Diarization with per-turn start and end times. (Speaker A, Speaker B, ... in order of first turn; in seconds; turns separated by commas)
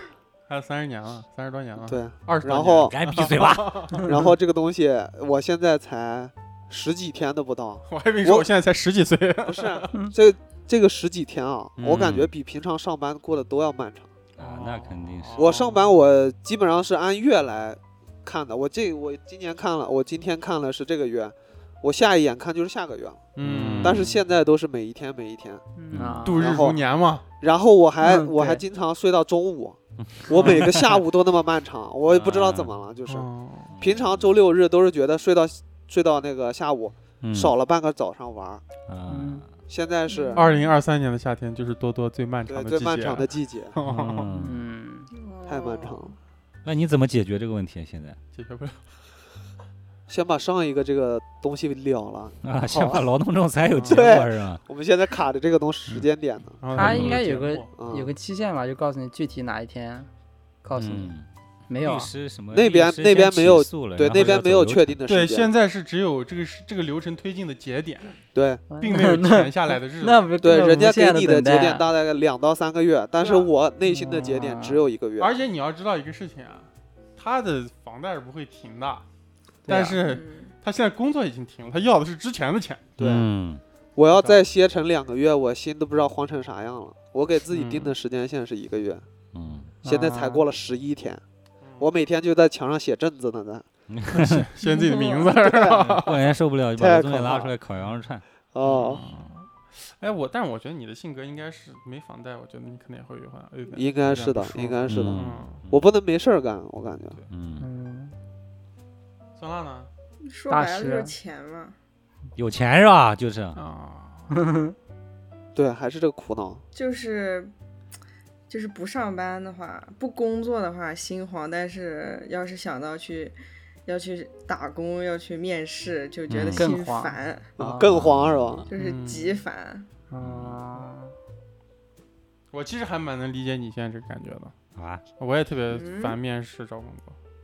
Speaker A: 0.5-4.2, Speaker B: 1.9-2.9, Speaker C: 2.9-4.1, Speaker B: 4.0-8.5, Speaker A: 7.9-9.9, Speaker B: 9.4-14.1, Speaker C: 11.8-12.3, Speaker C: 14.4-15.5, Speaker A: 14.4-15.8, Speaker B: 15.4-23.3, Speaker A: 23.4-24.1, Speaker C: 23.4-24.1, Speaker B: 23.8-25.6, Speaker D: 25.8-26.4, Speaker C: 25.9-26.3, Speaker A: 26.2-27.2, Speaker B: 26.4-26.8, Speaker B: 27.4-33.3, Speaker D: 28.0-28.6, Speaker C: 30.0-30.9, Speaker A: 30.4-30.6, Speaker C: 32.1-32.7, Speaker A: 33.1-33.7, Speaker C: 33.7-34.3, Speaker B: 33.8-38.6, Speaker C: 37.2-37.5, Speaker C: 38.9-39.5, Speaker D: 39.1-39.5, Speaker B: 39.7-40.4, Speaker E: 40.1-40.8, Speaker A: 40.3-44.3, Speaker B: 42.5-43.8, Speaker C: 43.8-44.6, Speaker D: 44.4-45.1, Speaker E: 45.1-46.1, Speaker B: 45.5-46.1, Speaker C: 46.6-48.2, Speaker A: 48.4-48.8, Speaker B: 50.1-53.0, Speaker C: 52.4-54.6, Speaker A: 53.7-54.1, Speaker B: 53.8-56.6, Speaker A: 56.6-57.7, Speaker D: 56.7-60.1, Speaker C: 56.8-57.2, Speaker B: 57.8-58.1, Speaker D: 60.6-61.1, Speaker C: 60.8-61.3, Speaker D: 61.7-62.1, Speaker C: 61.8-65.0, Speaker B: 62.5-65.5, Speaker A: 65.1-68.2, Speaker B: 68.3-68.6, Speaker D: 68.7-71.9, Speaker A: 68.8-70.4, Speaker B: 70.4-75.3, Speaker A: 73.2-73.5, Speaker D: 73.9-74.8, Speaker A: 75.2-79.0, Speaker A: 79.7-82.9, Speaker D: 79.7-80.0, Speaker E: 80.0-80.5, Speaker B: 83.0-83.3, Speaker C: 83.0-83.6, Speaker B: 84.0-89.0, Speaker A: 84.1-84.4, Speaker C: 89.3-89.7, Speaker D: 89.8-90.5, Speaker B: 89.8-91.2, Speaker B: 91.8-93.7, Speaker C: 93.9-94.5, Speaker A: 94.1-96.3, Speaker E: 94.6-95.3, Speaker B: 95.4-96.0, Speaker C: 96.0-98.2, Speaker B: 96.8-97.5, Speaker B: 98.5-99.0, Speaker A: 98.6-105.6, Speaker B: 103.7-107.2, Speaker C: 104.9-105.8, Speaker C: 107.3-107.7, Speaker D: 107.6-108.2, Speaker A: 109.4-109.9, Speaker E: 110.2-111.8, Speaker D: 110.5-111.1, Speaker C: 112.4-113.6, Speaker A: 113.5-114.4, Speaker D: 114.3-114.7, Speaker B: 115.5-116.6, Speaker E: 116.7-117.5, Speaker E: 118.5-127.5, Speaker C: 126.3-126.7, Speaker D: 126.5-127.9, Speaker B: 127.6-128.7, Speaker C: 127.9-128.7, Speaker E: 128.7-129.9, Speaker A: 128.8-129.4, Speaker D: 130.1-131.1, Speaker C: 130.2-130.6, Speaker A: 132.5-134.5, Speaker C: 134.8-135.0, Speaker A: 135.2-137.2, Speaker E: 135.7-136.2